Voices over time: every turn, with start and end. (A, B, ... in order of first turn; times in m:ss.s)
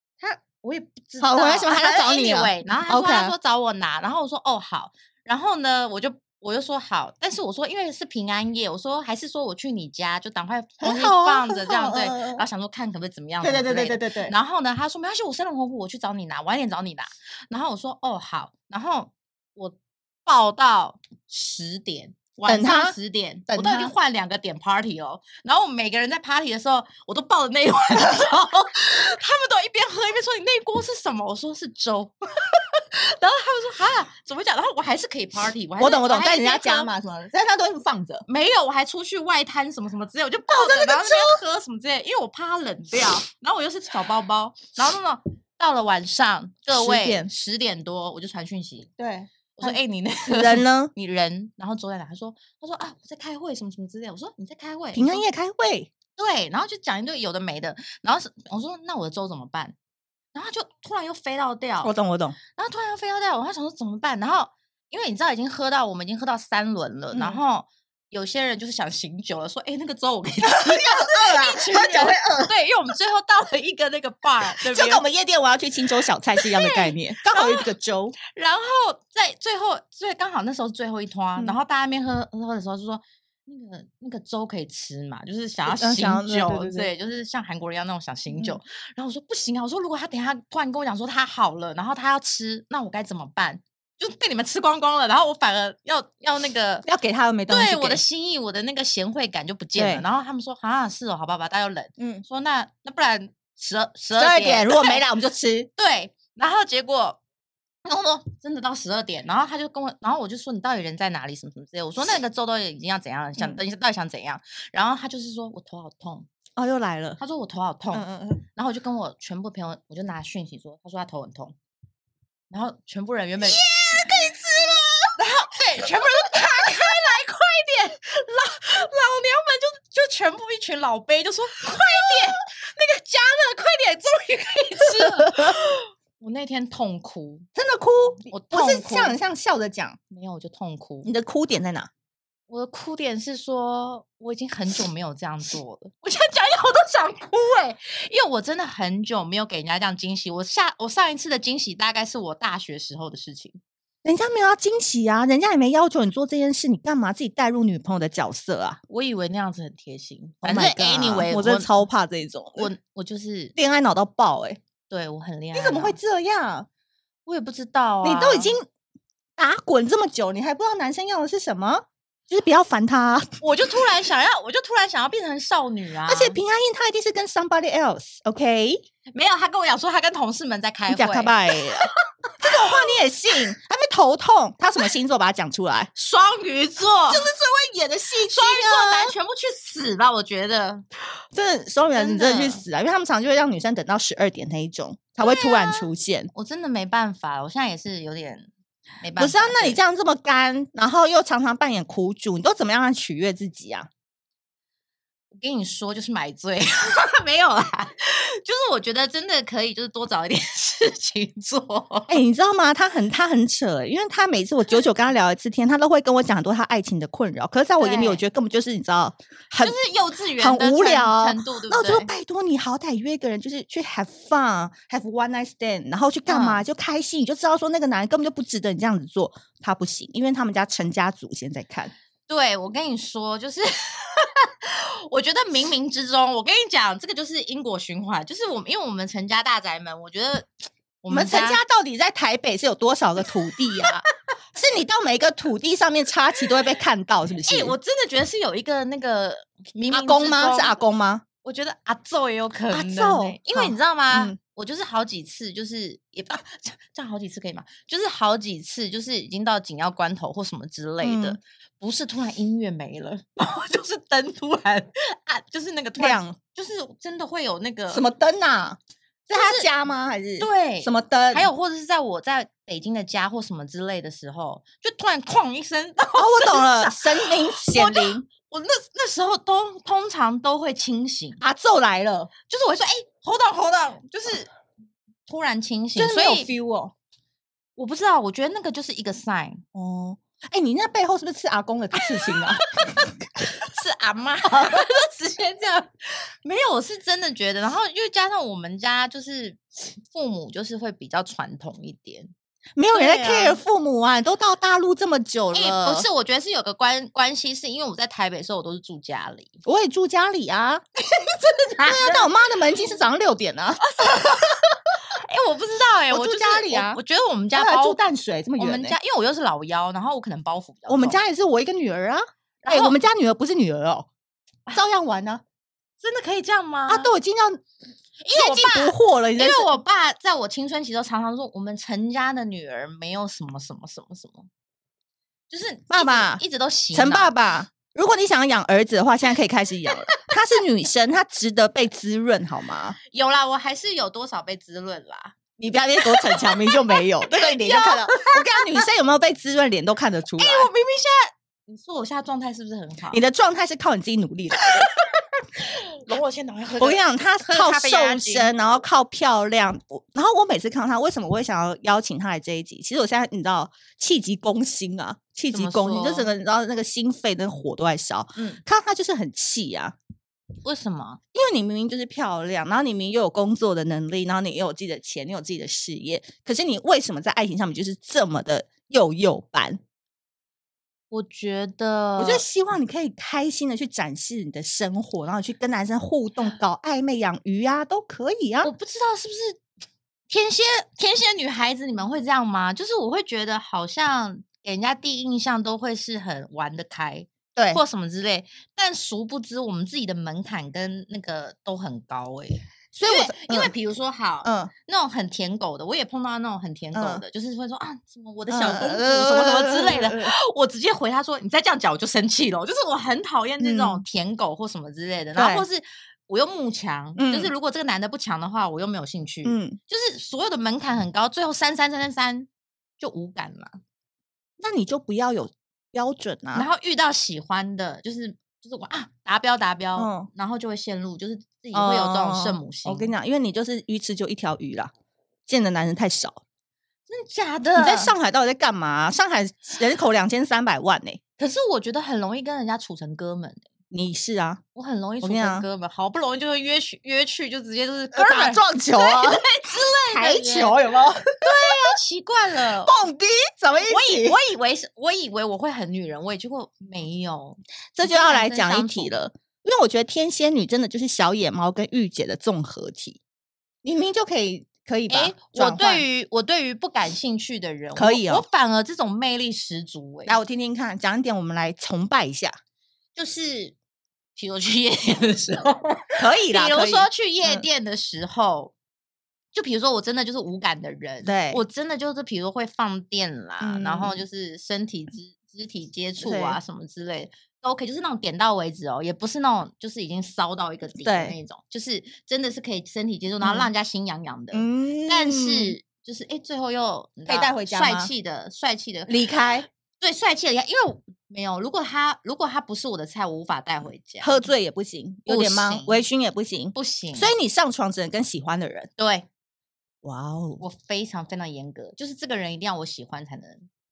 0:00.2-0:36.9 A
0:01.2-0:03.4 B
0:10.8-0:12.4 B
0:13.4-0:14.3 B
0:22.5-0:23.0 B
0:23.5-0:23.9 B
0:35.8-0:38.2 B
0:38.3-0:48.9 A
0:40.5-0:41.4 B
0:46.7-0:47.3 B
0:49.0-0:49.8 B
0:49.6-0:55.2 A
0:50.3-0:50.9 B
0:54.9-0:55.9 B
0:56.2-0:59.8 A
1:00.4-1:01.9 A
1:01.8-1:02.4 B
1:02.6-1:15.0 A
1:07.1-1:07.4 B
1:10.4-1:12.5 B
1:14.6-1:18.2 B
1:16.4-1:17.7 A
1:18.3-1:36.9 A
1:25.7-1:26.9 B
1:28.3-1:28.6 B
1:36.8-1:38.0 B
1:37.5-1:45.0 A
1:39.8-1:40.0 B
1:42.0-1:42.2 B
1:44.2-1:45.7 B
1:45.8-1:47.2 A
1:47.8-1:56.3 A
1:56.6-1:57.2 B
1:57.2-2:01.6 A
1:57.9-1:58.4 B
2:02.5-2:04.4 A
2:03.4-2:05.1 B
2:05.2-2:17.5 A
2:15.0-2:15.6 B
2:17.6-2:20.0 B
2:18.3-2:19.2 A
2:20.1-2:21.1 A
2:21.0-2:21.9 B
2:22.5-2:33.6 A
2:34.0-2:38.8 B
2:38.9-2:41.8 A
2:40.4-2:42.7 B
2:42.6-2:43.6 A
2:43.6-2:44.6 B
2:44.9-2:46.0 A
2:45.5-2:46.7 B
2:47.3-2:48.6 A
2:48.0-2:48.7 B
2:49.4-2:53.4 B
2:53.4-2:56.4 A
2:56.1-2:58.8 B
2:59.1-3:03.0 A
3:00.9-3:05.9 B
3:06.0-3:07.3 A
3:07.1-3:09.1 B
3:08.3-3:10.8 A
3:11.3-3:16.3 B
3:12.0-3:12.6 A
3:15.2-3:18.5 A
3:19.0-3:19.8 A
3:19.2-3:23.9 B
3:25.3-3:32.2 A
3:32.1-3:39.8 B
3:37.8-3:38.2 A
3:39.6-3:42.1 A
3:40.4-3:51.9 B
3:46.3-3:46.6 A
3:52.3-4:00.5 A
4:01.0-4:01.6 A
4:01.1-4:04.0 B
4:04.6-4:07.8 B
4:07.4-4:10.8 A
4:09.9-4:11.2 B
4:11.4-4:28.0 A
4:12.7-4:14.4 B
4:21.0-4:21.4 B
4:26.0-4:26.4 B
4:27.9-4:31.5 B
4:29.3-4:29.7 A
4:30.4-4:41.4 A
4:36.2-4:38.3 B
4:41.4-4:42.3 B
4:42.5-4:44.5 A
4:45.3-4:46.5 A
4:46.0-4:46.9 B
4:47.8-4:49.6 A
4:49.7-4:53.1 B
4:52.0-4:55.9 A
4:56.4-5:02.3 A
5:02.8-5:06.1 B
5:02.9-5:03.6 A
5:05.5-5:09.6 A
5:09.6-5:10.8 B
5:11.0-5:12.3 A
5:11.8-5:14.3 B
5:13.8-5:18.0 A
5:16.1-5:17.0 B
5:17.5-5:19.0 B
5:18.6-5:21.2 A
5:20.9-5:24.1 B
5:22.6-5:23.0 A
5:24.7-5:25.4 B
5:26.0-5:27.1 A
5:26.9-5:27.6 B
5:28.2-5:34.5 A
5:28.3-5:29.7 B
5:35.5-5:37.3 A
5:35.9-5:36.4 B
5:36.9-5:43.0 B
5:43.1-5:45.4 A
5:45.6-5:50.7 B
5:46.0-5:48.8 A
5:50.4-5:53.2 A
5:53.1-5:54.9 B
5:54.6-5:58.6 A
5:56.8-6:10.0 B
6:05.5-6:06.3 A
6:08.4-6:08.6 A
6:10.6-6:11.2 A
6:11.3-6:19.8 B
6:21.1-6:22.4 A
6:22.2-6:28.7 B
6:28.6-6:29.6 A
6:30.3-7:03.8 A
6:37.6-6:37.8 B
6:42.9-6:43.7 B
6:44.4-6:44.7 B
6:46.9-6:47.2 B
6:48.5-6:50.3 B
6:53.6-6:54.0 B
6:55.4-6:55.6 B
6:57.2-6:57.5 B
6:59.4-6:59.8 B
7:04.6-7:06.7 B
7:06.5-7:13.2 A
7:10.0-7:10.3 B
7:11.7-7:14.9 B
7:15.5-7:16.4 B
7:17.1-7:18.1 A
7:17.8-7:21.2 B
7:21.4-7:23.6 A
7:23.9-7:24.6 B
7:24.8-7:30.8 A
7:25.2-7:25.7 B
7:28.1-7:29.4 B
7:30.1-7:31.7 B
7:31.4-7:33.0 A
7:32.8-7:34.4 B
7:33.8-7:39.1 A
7:38.0-7:43.2 B
7:43.8-7:46.0 B
7:45.1-7:50.4 A
7:48.0-7:48.5 B
7:50.3-7:52.5 B
7:53.2-7:53.8 A
7:54.4-7:58.7 A
7:56.2-7:57.6 B
7:59.5-8:24.5 A
8:01.2-8:01.6 B
8:03.6-8:04.2 B
8:06.2-8:06.6 B
8:11.0-8:11.4 B
8:13.4-8:13.7 B
8:14.5-8:15.8 B
8:17.3-8:18.1 B
8:19.1-8:19.7 B
8:24.2-8:28.9 B
8:25.3-8:26.0 A
8:26.8-8:27.3 A
8:29.0-8:29.3 A
8:30.0-8:30.6 B
8:30.6-8:33.7 A